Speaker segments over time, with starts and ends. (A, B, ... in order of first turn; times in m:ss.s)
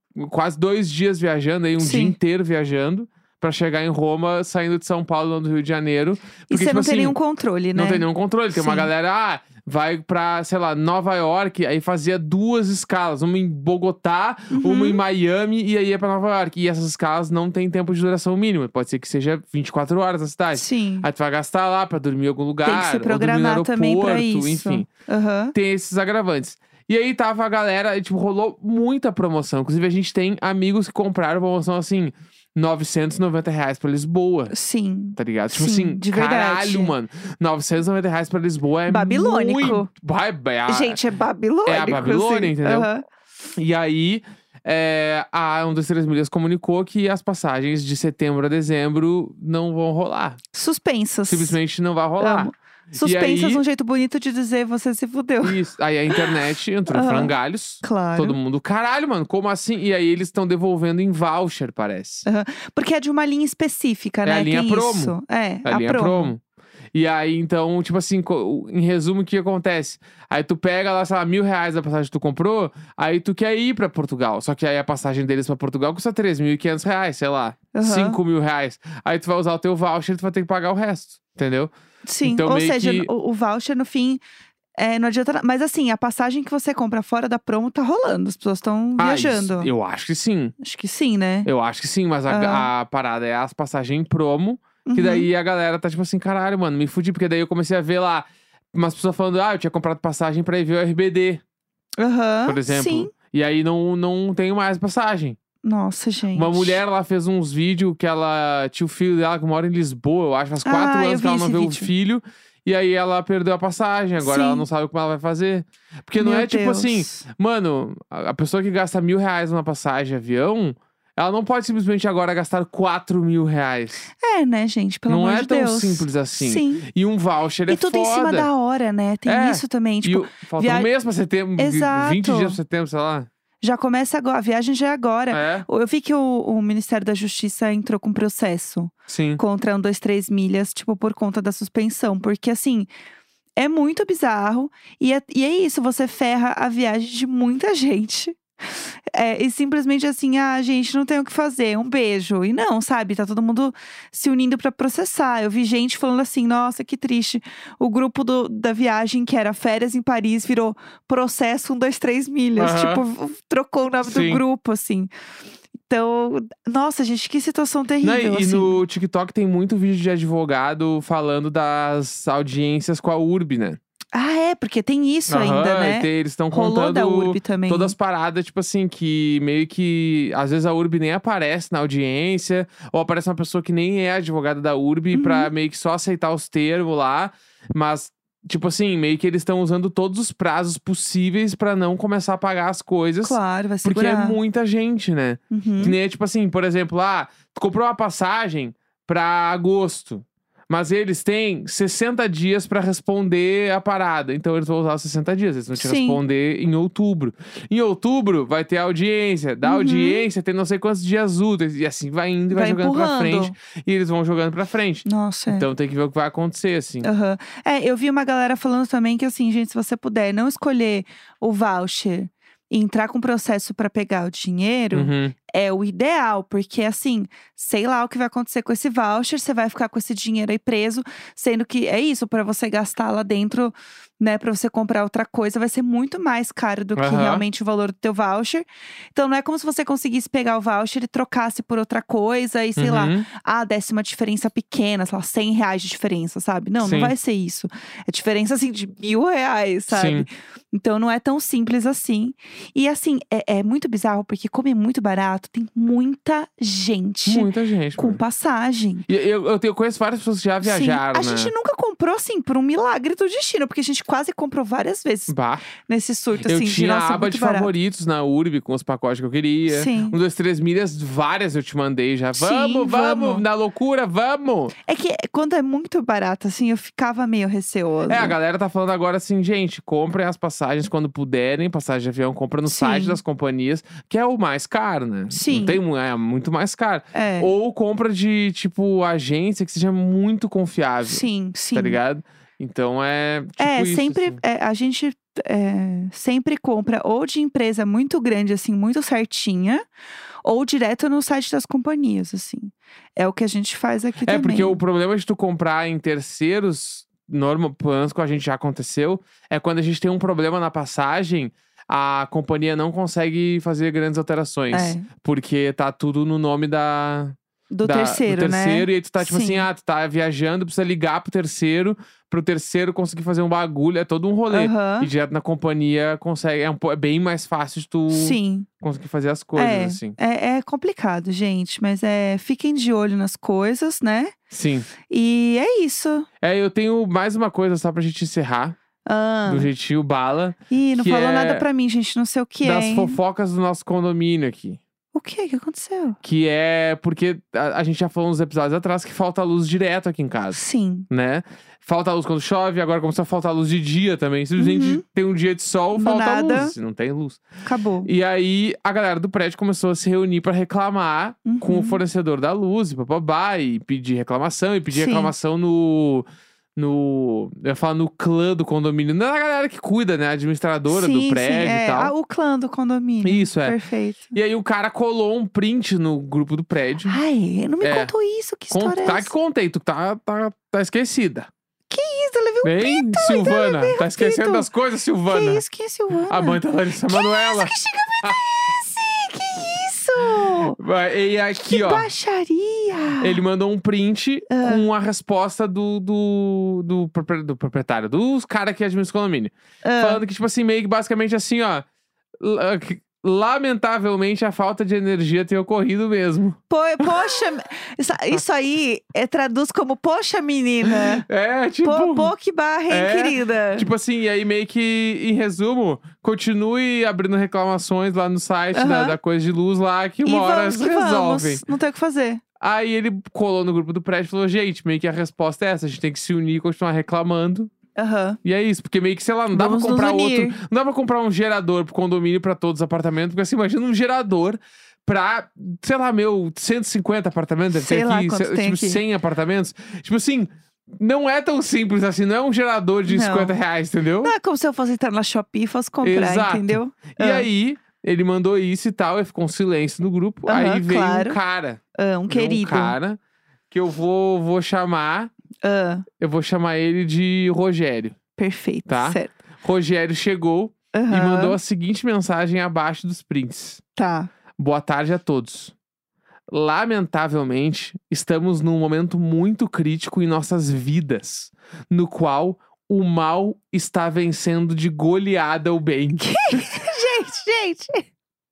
0:00.1-0:07.2 A
0:01.8-0:02.2 B
0:06.5-0:08.9 B
0:07.8-0:24.9 A
0:14.5-0:15.0 B
0:20.5-0:21.1 B
0:22.6-0:25.5 B
0:25.5-0:34.5 A
0:34.5-0:36.9 B
0:35.2-0:41.0 A
0:38.9-0:39.9 B
0:40.7-0:43.0 B
0:41.6-0:42.9 A
0:43.6-0:50.4 A
0:50.5-0:51.6 B
0:51.3-0:53.6 A
0:52.2-0:56.4 B
0:55.4-1:02.2 A
0:56.9-0:58.4 B
1:02.2-1:06.3 B
1:04.2-1:06.4 A
1:06.9-1:21.7 A
1:17.7-1:18.2 B
1:22.1-1:24.2 B
1:22.2-1:23.1 A
1:24.8-1:29.7 B
1:29.0-1:30.5 A
1:30.6-1:31.5 B
1:31.4-1:41.4 A
1:32.3-1:32.7 B
1:34.9-1:35.3 B
1:42.0-1:43.1 B
1:42.5-1:45.4 A
1:45.6-1:46.8 B
1:46.3-2:04.1 A
1:50.6-1:51.9 B
1:54.2-1:54.6 B
1:56.2-1:57.2 B
2:04.2-2:06.9 B
2:05.1-2:08.5 A
2:07.7-2:10.9 B
2:09.2-2:13.3 A
2:11.6-2:12.6 B
2:13.6-2:22.9 B
2:15.3-2:15.7 A
2:19.1-2:19.4 A
2:23.6-2:45.1 B
2:42.6-2:43.0 A
2:44.0-2:44.4 A
2:45.9-2:48.8 B
2:48.0-2:53.8 A
2:54.1-2:58.0 B
2:55.3-3:37.1 A
3:05.1-3:05.5 B
3:13.2-3:14.4 B
3:15.5-3:16.0 B
3:25.8-3:26.2 B
3:29.6-3:30.3 B
3:32.5-3:33.5 B
3:35.1-3:35.7 B
3:37.0-4:19.1 B
3:44.9-3:45.4 A
3:57.0-3:57.4 A
4:02.8-4:03.3 A
4:06.8-4:07.1 A
4:09.9-4:10.3 A
4:17.3-4:18.2 A
4:19.1-4:21.5 A
4:20.6-4:25.3 B
4:25.3-4:25.6 A
4:25.8-4:27.7 B
4:26.4-4:34.8 A
4:29.7-4:30.2 B
4:32.4-4:33.4 B
4:34.9-4:38.4 B
4:38.1-4:54.4 A
4:42.6-4:43.2 B
4:45.3-4:45.8 B
4:47.1-4:47.5 B
4:51.1-4:52.0 B
4:53.6-4:59.8 B
5:00.4-5:04.8 B
5:04.2-5:30.2 A
5:14.7-5:15.1 B
5:17.7-5:19.7 B
5:24.5-5:25.1 B
5:28.1-5:28.7 B
5:29.6-5:34.4 B
5:34.5-5:34.9 A
5:35.1-5:36.3 B
5:36.4-5:38.8 A
5:39.1-5:39.7 B
5:39.5-5:41.6 A
5:40.7-5:43.2 B
5:42.6-5:44.8 A
5:45.1-5:46.2 B
5:46.2-5:57.4 A
5:50.5-5:51.1 B
5:54.6-5:55.0 B
5:55.9-5:56.8 B
5:57.6-5:58.1 B
5:58.0-6:06.2 A
6:01.4-6:02.0 B
6:04.9-6:05.3 B
6:06.8-6:12.1 A
6:10.9-6:14.3 B
6:13.2-6:13.8 A
6:14.3-6:17.2 A
6:17.1-6:19.3 B
6:17.8-6:18.1 A
6:18.7-6:21.5 A
6:21.9-6:24.7 B
6:22.6-6:25.6 A
6:25.3-6:30.8 B
6:26.3-6:28.4 A
6:30.4-6:32.1 A
6:31.6-6:33.4 B
6:33.2-6:41.8 A
6:34.5-6:34.9 B
6:39.8-6:40.2 B
6:42.4-6:47.4 A
6:46.7-6:51.3 B
6:50.9-6:52.3 A
6:51.8-6:53.9 B
6:52.9-7:01.6 A
6:58.7-6:59.2 B
7:00.2-7:02.4 B
7:02.6-7:07.7 A
7:08.0-7:08.4 B
7:08.4-7:24.3 A
7:09.5-7:10.6 B
7:17.7-7:19.0 B
7:23.1-7:23.6 B
7:24.2-7:27.5 B
7:26.0-7:33.2 A
7:30.5-7:31.4 B
7:31.9-7:33.0 B
7:33.7-7:35.3 A
7:35.6-7:36.1 B
7:36.2-7:38.2 A
7:38.4-7:39.3 B
7:38.9-7:43.8 A
7:40.9-7:41.6 B
7:44.0-7:44.3 B
7:44.6-7:45.7 A
7:46.5-7:56.6 A
7:56.2-7:58.1 B